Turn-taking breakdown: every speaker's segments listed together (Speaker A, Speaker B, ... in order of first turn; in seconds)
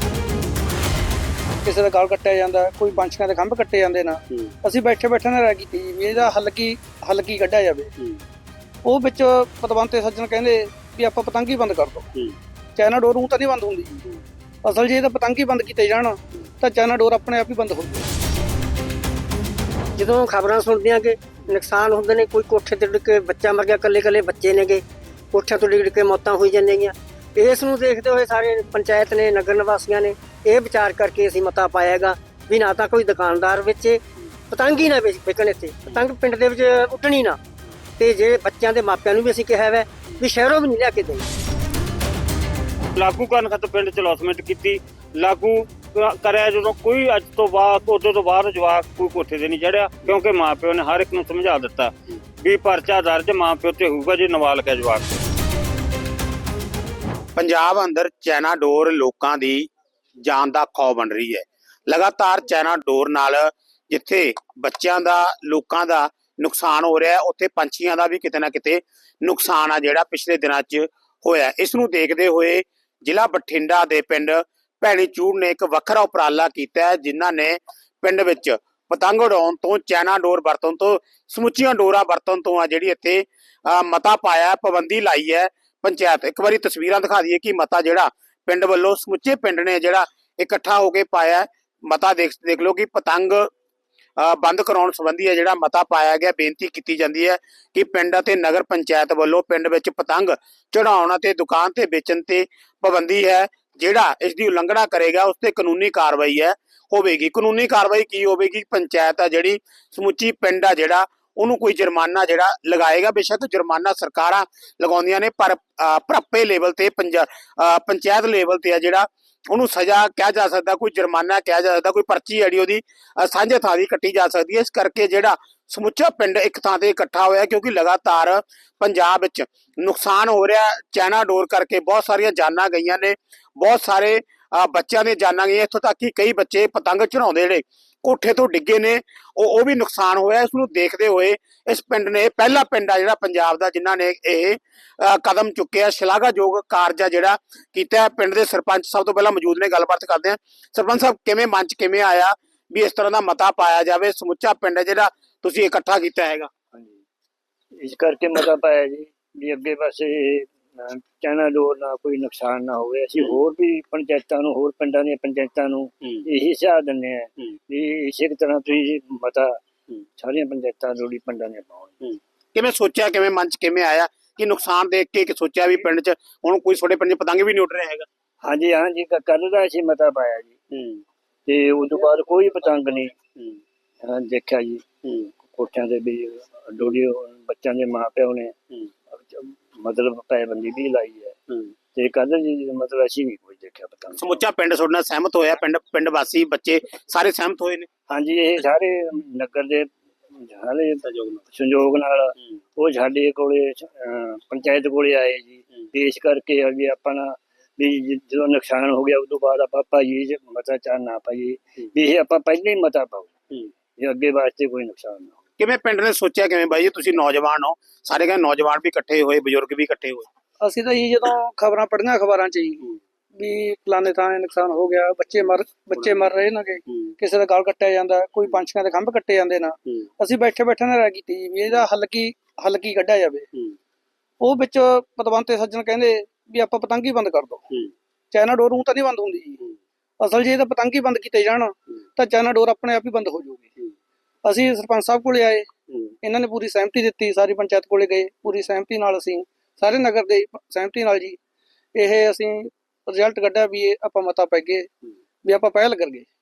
Speaker A: 1.6-7.9, 8.8-12.1, 12.8-14.0, 14.6-18.1, 220.6-222.8, 223.4-233.5, 234.4-237.6, 238.3-239.6, 240.2-243.7, 244.4-245.7, 246.2-251.4, 251.9-254.9, 255.4-256.2
Speaker B: 19.9-37.4, 38.0-41.2
Speaker C: 42.9-55.2
Speaker D: 57.4-93.5, 94.2-156.5, 172.5-178.1, 194.2-197.9, 215.6-220.3
Speaker E: 157.8-169.6, 170.2-172.1, 178.4-180.6, 181.4-183.1, 184.0-188.6, 189.2-191.4, 191.9-194.3, 198.1-213.3, 214.0-215.3